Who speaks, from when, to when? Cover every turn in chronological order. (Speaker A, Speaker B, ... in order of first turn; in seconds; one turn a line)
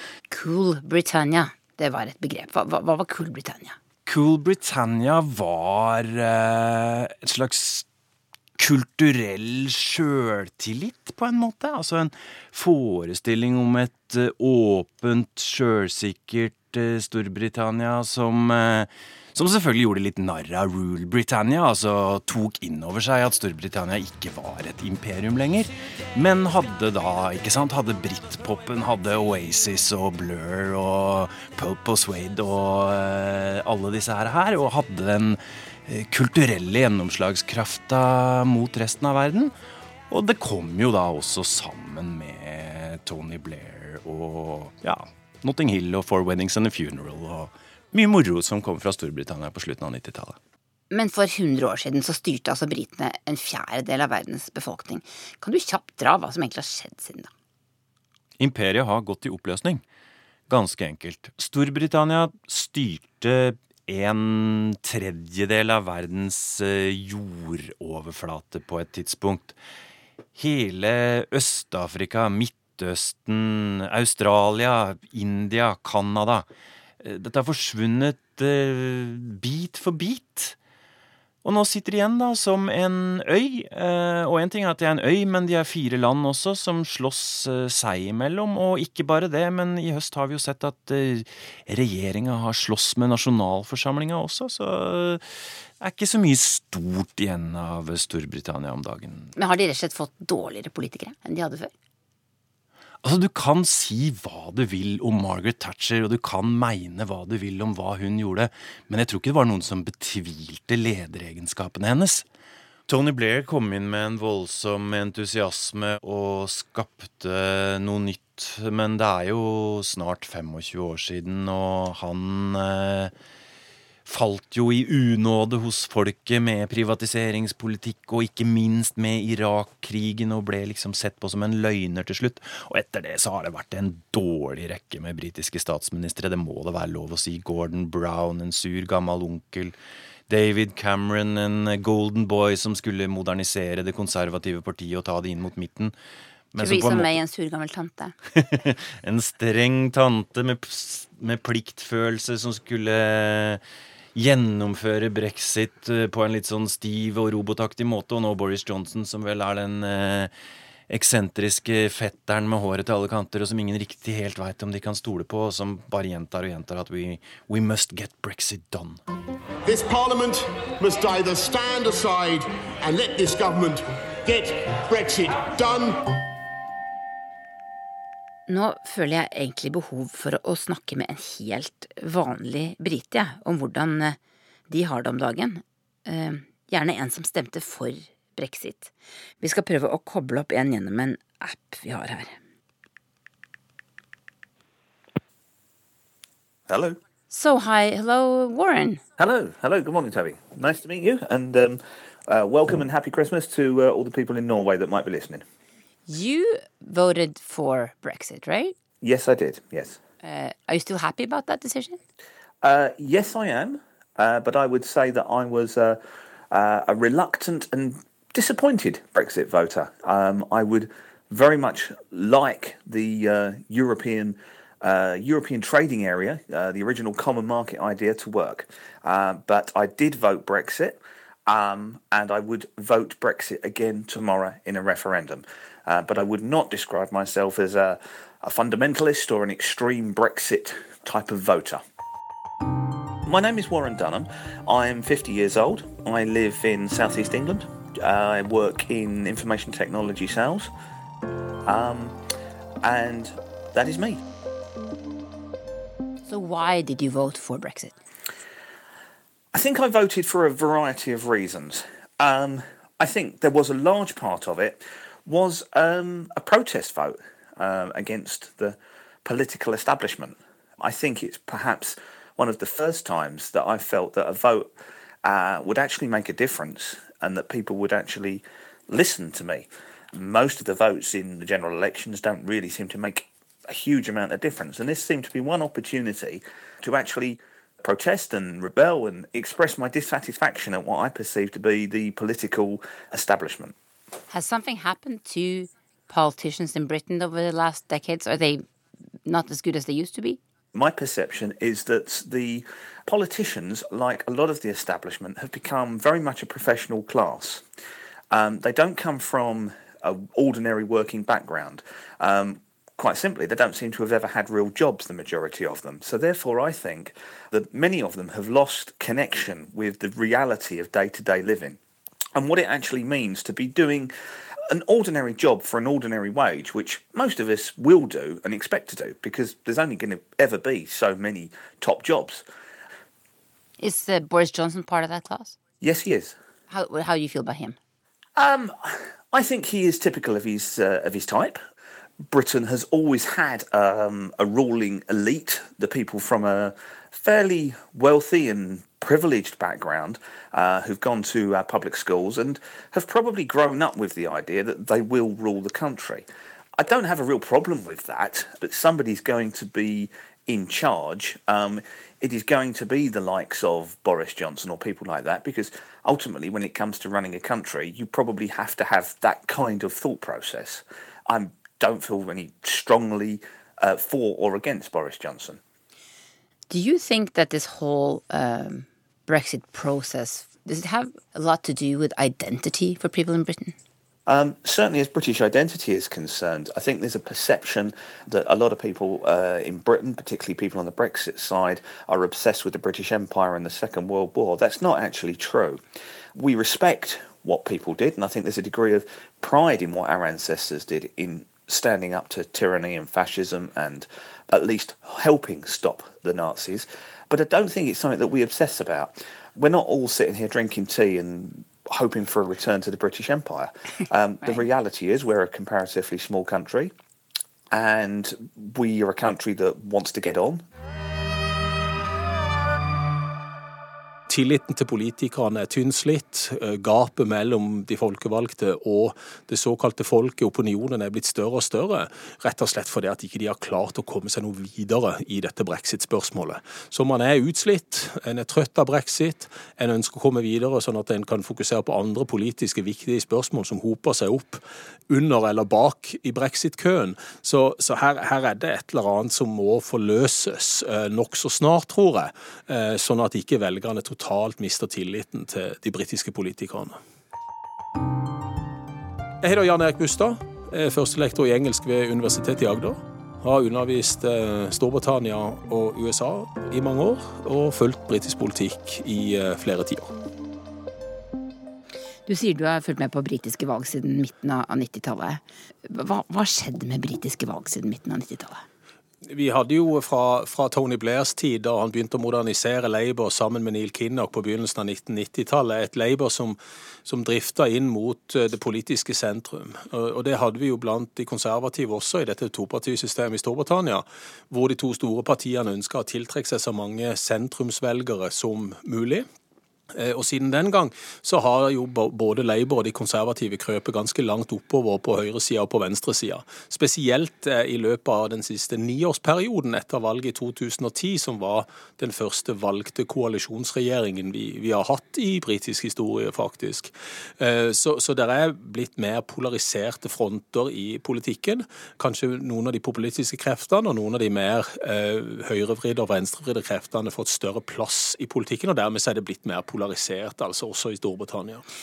Speaker A: 0.3-3.8
Speaker B: 4.0-7.9
Speaker B: 8.6-39.5
Speaker B: 40.1-50.4
Speaker A: 50.9-57.3
Speaker B: 58.4-59.8
Speaker B: 60.5-69.6
Speaker B: 70.3-76.5
Speaker B: 77.0-80.5
Speaker B: 81.4-95.2
Speaker B: 95.8-99.3
Speaker A: 99.4-101.7
Speaker B: 103.0-112.2
Speaker B: 112.9-123.1
Speaker B: 124.0-139.7
Speaker B: 140.3-145.9
Speaker B: 146.5-147.1
Speaker A: 146.6-148.1
Speaker B: 148.4-153.6
Speaker B: 154.1-160.3
Speaker B: 160.9-169.0
Speaker C: 169.7-176.0
Speaker A: 178.5-184.2
Speaker A: 184.7-192.4
Speaker D: 196.7-197.0
Speaker A: 197.3-199.0
Speaker D: 199.2-205.4
Speaker A: 206.1-208.8
Speaker D: 209.0-210.0
Speaker A: 210.2-212.0
Speaker D: 212.6-241.8
Speaker D: 243.2-250.7
Speaker D: 251.7-252.2
Speaker D: 252.8-254.2
Speaker A: 256.2-258.0
Speaker D: 259.5-274.7
Speaker D: 275.2-293.7
Speaker A: 294.3-298.6
Speaker A: 299.2-300.4
Speaker D: 300.7-307.6
Speaker D: 308.3-321.8
Speaker D: 322.4-324.1
Speaker D: 324.7-332.4
Speaker A: 333.8-335.6
Speaker D: 335.8-336.4
Speaker A: 336.7-337.8
Speaker D: 338.4-341.6
Speaker D: 342.3-356.2
Speaker D: 356.8-375.6
Speaker A: 376.7-383.8
Speaker D: 384.3-395.8
Speaker D: 396.3-416.9
Speaker D: 417.7-420.6
Speaker E: 424.3-457.0
Speaker E: 459.4-470.1
Speaker A: 472.2-478.6
Speaker E: 479.2-499.3
Speaker E: 499.9-531.6